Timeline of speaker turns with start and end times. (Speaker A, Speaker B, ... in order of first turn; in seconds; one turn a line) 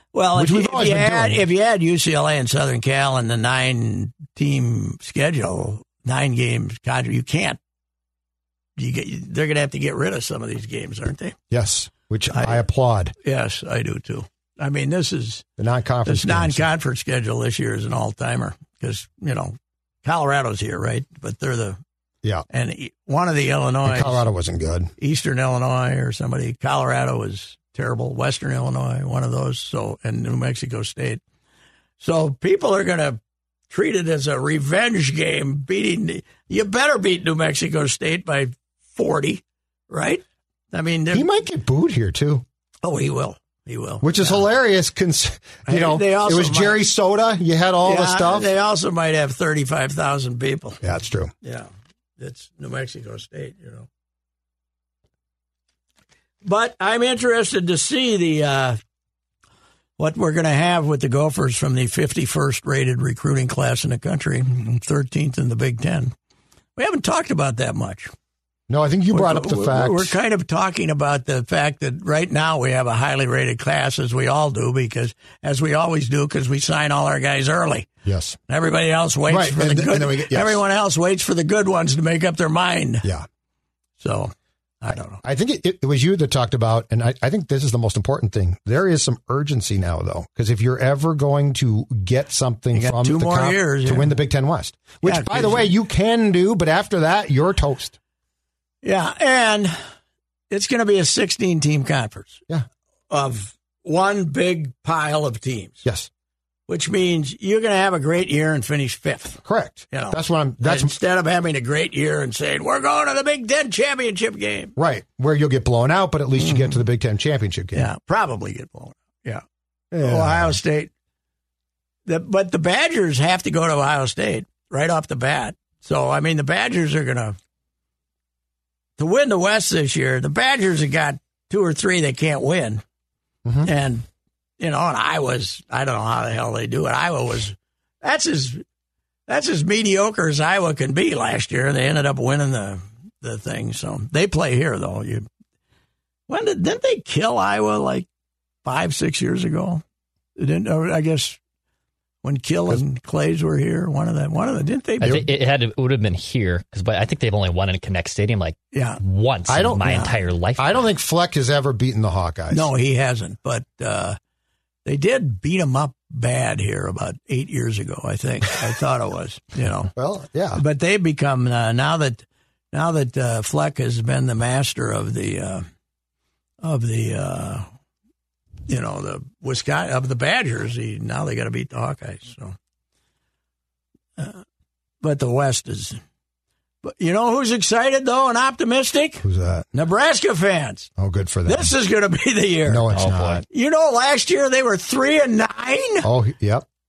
Speaker A: 0.1-7.6
Speaker B: 0.3-1.4
Speaker A: 8.8-11.3
Speaker B: 11.5-13.1
Speaker A: 12.3-12.6
Speaker A: 13.2-15.4
Speaker B: 15.6-16.6
Speaker A: 16.1-21.8
Speaker A: 22.5-24.2
Speaker B: 23.8-24.9
Speaker A: 25.0-31.2
Speaker A: 32.0-33.2
Speaker A: 33.7-41.3
Speaker B: 41.1-42.4
Speaker A: 42.8-44.4
Speaker B: 44.0-48.5
Speaker A: 45.7-46.8
Speaker A: 47.8-50.8
Speaker B: 50.8-51.3
Speaker A: 51.4-53.9
Speaker A: 56.4-58.8
Speaker A: 60.0-66.1
Speaker A: 66.8-68.1
Speaker B: 68.7-70.2
Speaker A: 69.1-77.9
Speaker B: 78.0-78.4
Speaker A: 78.5-83.1
Speaker B: 79.3-80.6
Speaker A: 84.0-85.2
Speaker B: 84.9-98.0
Speaker A: 92.7-94.2
Speaker A: 95.0-95.7
Speaker A: 98.8-99.7
Speaker A: 100.5-102.4
Speaker A: 103.1-105.8
Speaker B: 105.8-106.1
Speaker A: 106.7-114.7
Speaker B: 109.4-110.9
Speaker B: 114.8-117.9
Speaker A: 116.4-116.8
Speaker A: 117.7-119.4
Speaker B: 119.9-120.6
Speaker A: 120.0-120.9
Speaker A: 122.1-127.4
Speaker A: 129.0-132.8
Speaker A: 133.6-134.1
Speaker A: 134.6-138.6
Speaker A: 139.3-145.2
Speaker A: 146.3-148.1
Speaker A: 148.6-149.8
Speaker A: 150.4-151.4
Speaker A: 152.2-155.2
Speaker C: 155.0-160.7
Speaker A: 158.7-159.0
Speaker B: 159.5-160.0
Speaker A: 159.8-160.1
Speaker B: 160.6-162.7
Speaker A: 162.5-164.2
Speaker A: 164.8-169.9
Speaker B: 169.9-170.6
Speaker A: 170.6-175.6
Speaker A: 176.6-177.7
Speaker A: 178.7-182.5
Speaker A: 184.2-184.4
Speaker A: 185.0-186.0
Speaker A: 186.8-190.9
Speaker B: 189.2-189.6
Speaker B: 191.0-191.7
Speaker A: 191.4-192.9
Speaker B: 192.7-193.4
Speaker C: 192.9-193.4
Speaker A: 193.4-196.1
Speaker B: 196.0-196.7